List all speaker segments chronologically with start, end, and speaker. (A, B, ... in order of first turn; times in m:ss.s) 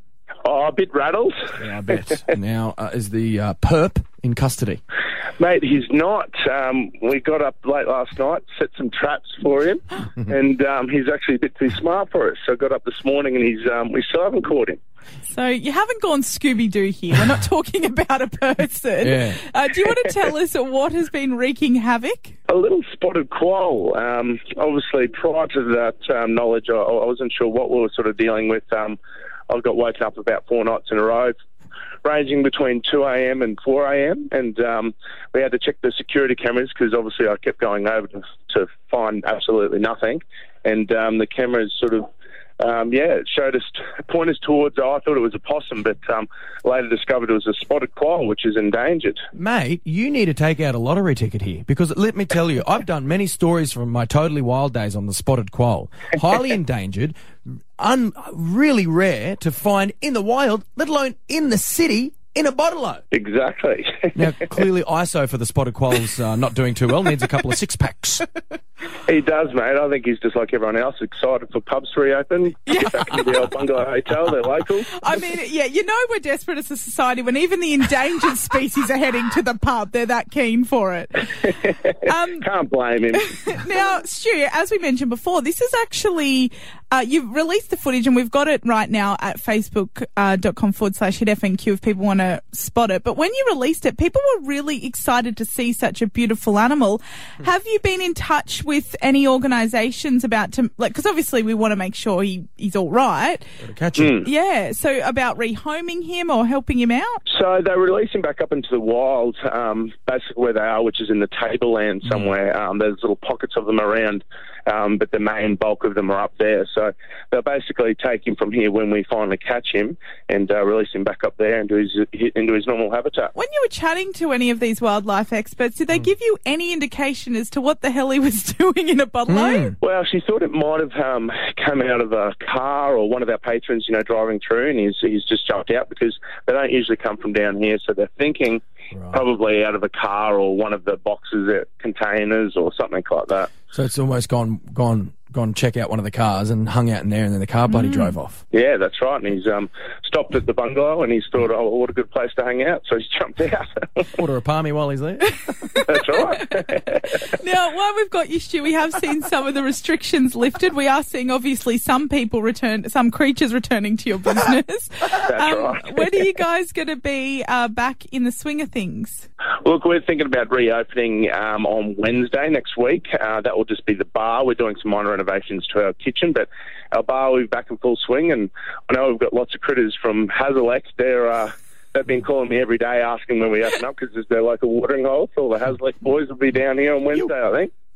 0:00.4-0:01.6 A
0:01.6-0:04.8 B
0:05.4-0:14.8 A
0:15.3-0:22.4 C
0:19.0-0:19.4 B
0:22.5-0:29.0 A
0:29.5-0:31.3 A
0:32.0-0:49.2 A
0:49.4-0:57.2 B
0:57.8-1:03.0 B
1:03.1-1:04.2 A
1:04.2-1:08.2 B
1:09.0-1:14.9 A
1:12.7-1:13.1 C
1:14.9-1:22.5 C
1:22.4-1:23.3 A
1:23.1-1:43.5 C
1:43.6-1:44.2 B
1:44.0-1:44.2 A
1:44.2-1:47.2 C
1:47.3-2:03.3 A
2:03.4-2:09.7 C
2:09.3-2:09.7 B
2:09.8-2:23.5 A
2:23.7-2:28.4 B
2:27.7-2:28.1 C
2:28.5-2:34.1 A
2:34.2-2:35.4 B
2:35.7-2:49.3 C
2:35.8-2:37.2 A
2:45.2-2:46.1 A
2:49.6-3:07.7 A